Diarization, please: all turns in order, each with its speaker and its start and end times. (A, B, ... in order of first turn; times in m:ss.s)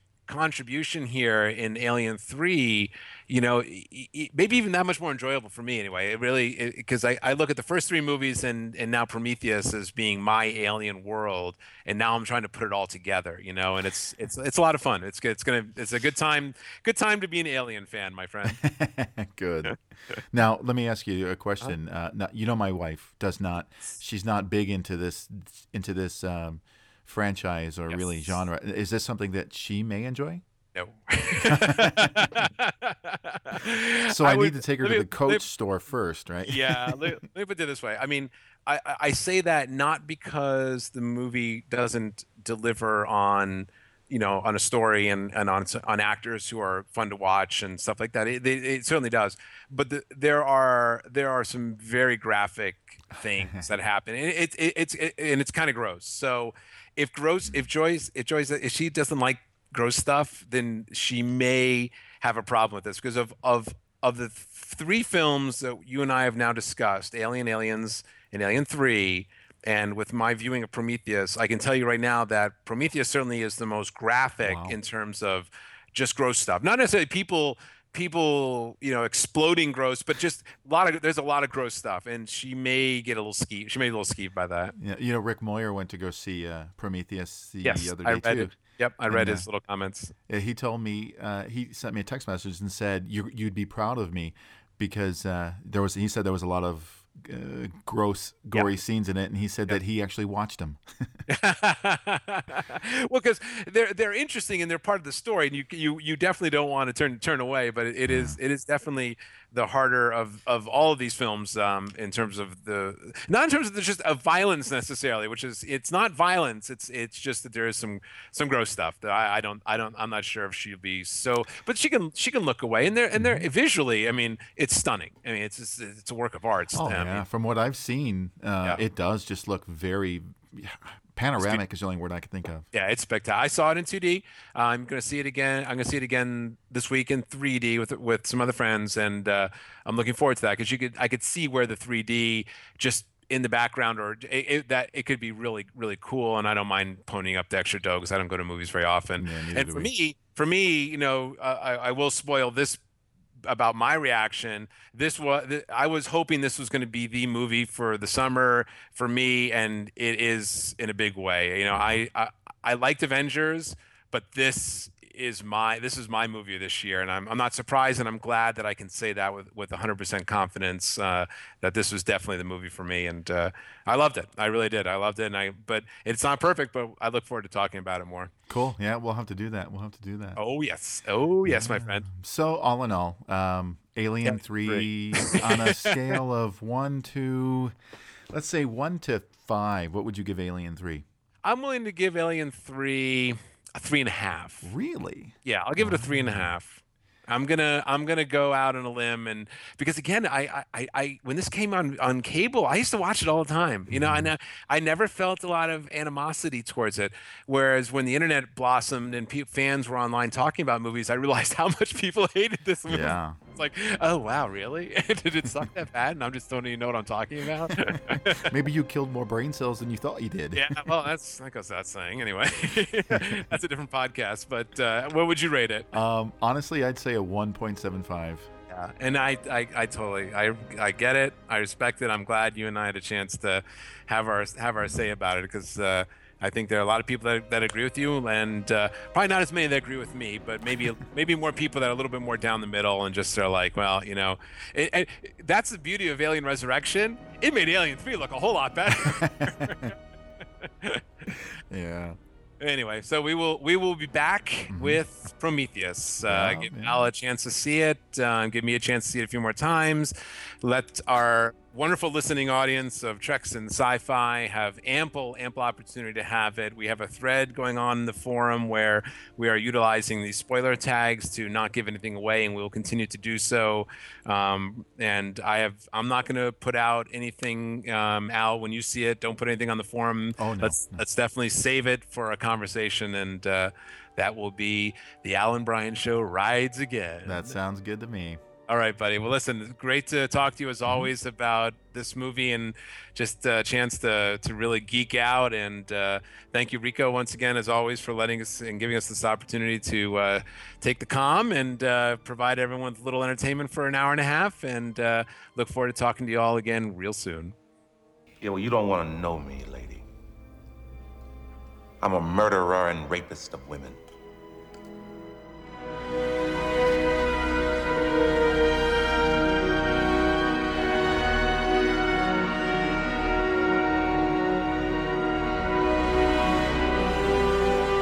0:00.3-0:18.6 A
0:18.5-0:19.8 B
0:19.7-0:20.2 A
0:20.3-0:30.4 B
0:27.9-0:28.3 A
0:30.7-0:35.4 A
0:31.5-0:32.5 B
0:34.1-0:37.2 B
0:36.5-1:24.7 A
0:53.2-0:53.6 B
1:14.4-1:14.8 B
1:24.8-1:28.6 B
1:27.6-1:30.1 A
1:29.1-1:29.4 B
1:30.3-1:41.2 B
1:41.3-2:07.2 A
1:48.1-1:48.4 B
2:03.1-2:03.5 B
2:06.7-2:12.7 B
2:12.7-2:32.8 A
2:29.2-2:29.9 B
2:33.4-2:58.3 A
2:41.7-2:42.0 B
2:58.5-3:00.4 B
3:00.4-3:02.0 A
3:01.4-3:07.7 B
3:04.2-3:06.2 A
3:08.3-3:11.0 B
3:11.4-3:14.7 A
3:14.6-3:16.5 B
3:15.4-3:38.5 A
3:23.9-3:24.3 B
3:32.9-3:33.4 B
3:37.7-3:40.9 B
3:40.6-3:45.9 A
3:43.1-3:43.4 B
3:45.9-3:48.5 B
3:48.7-4:09.9 A
4:08.9-4:09.9 B
4:10.6-4:11.4 A
4:11.3-4:12.2 B
4:12.6-4:47.5 A
4:14.7-4:15.0 B
4:16.2-4:17.1 B
4:40.4-4:41.0 B
4:47.2-4:48.4 B
4:48.7-5:07.5 A
5:08.4-5:10.0 C
5:12.0-5:14.0 C